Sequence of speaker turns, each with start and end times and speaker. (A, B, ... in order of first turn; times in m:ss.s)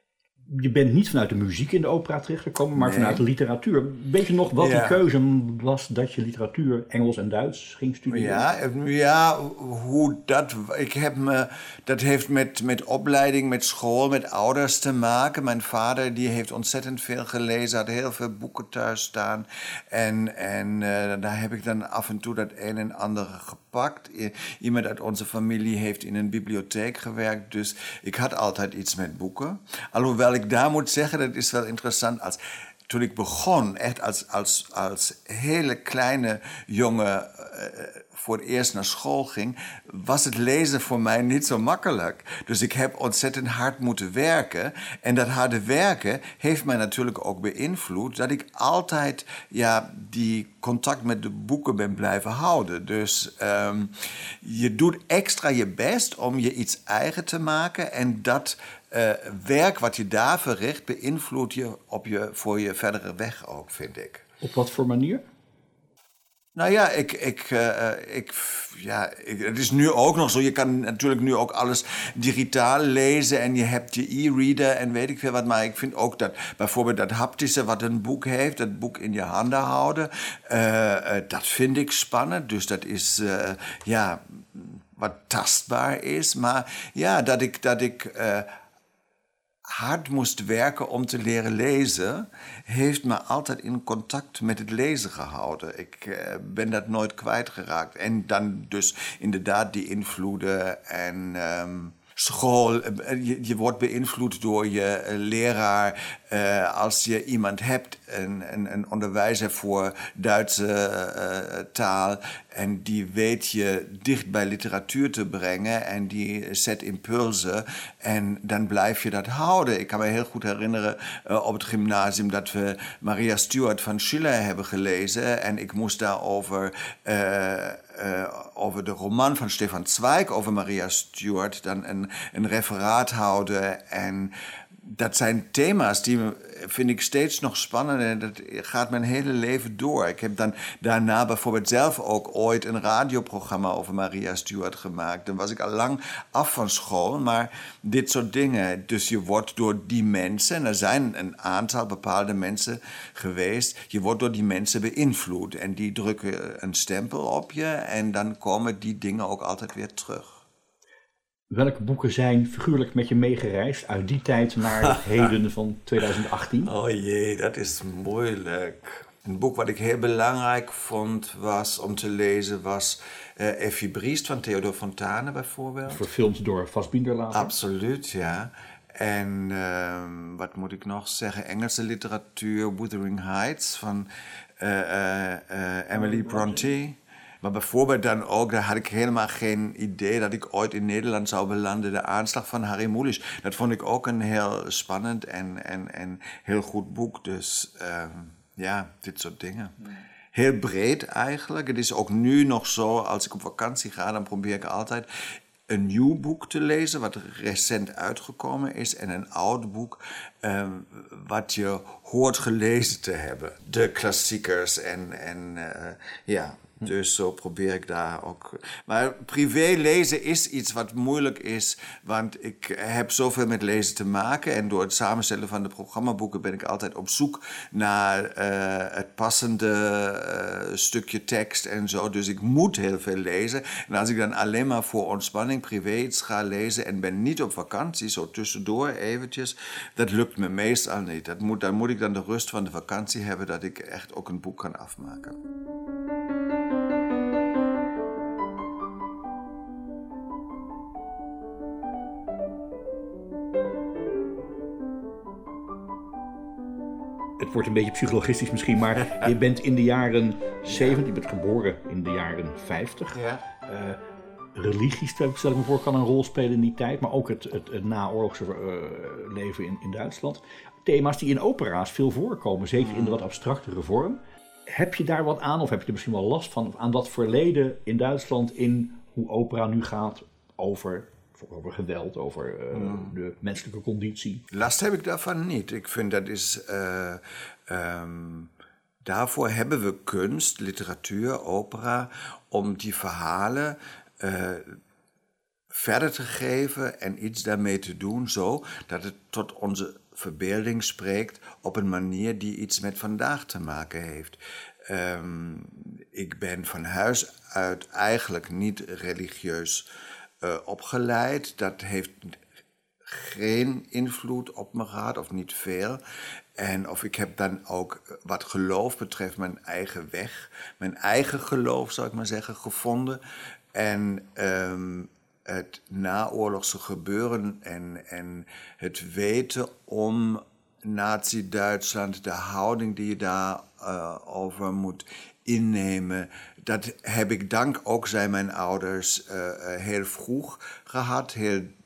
0:00.5-0:08.4 A
0:02.8-0:03.2 B
0:04.6-0:05.0 B
0:08.1-1:04.2 B
1:04.4-1:05.2 A
1:06.6-1:28.5 B
1:29.7-2:40.4 B
2:41.5-2:46.7 A
2:44.9-2:45.3 B
2:46.6-2:56.1 B
2:55.9-2:57.6 A
2:57.3-3:04.1 B
3:04.6-3:19.8 B
3:06.2-3:06.5 A
3:20.3-3:25.1 B
3:25.7-4:05.4 B
4:17.4-4:24.0 A
4:23.2-4:23.4 B
4:24.6-4:44.4 A
4:32.9-4:33.2 B
4:42.8-4:43.1 B
4:44.5-4:48.5 B
4:49.0-4:54.8 B
4:55.7-5:09.9 B
5:10.4-5:12.4 B
5:13.0-5:16.0 B
5:16.6-5:23.2 B
5:23.7-5:41.7 B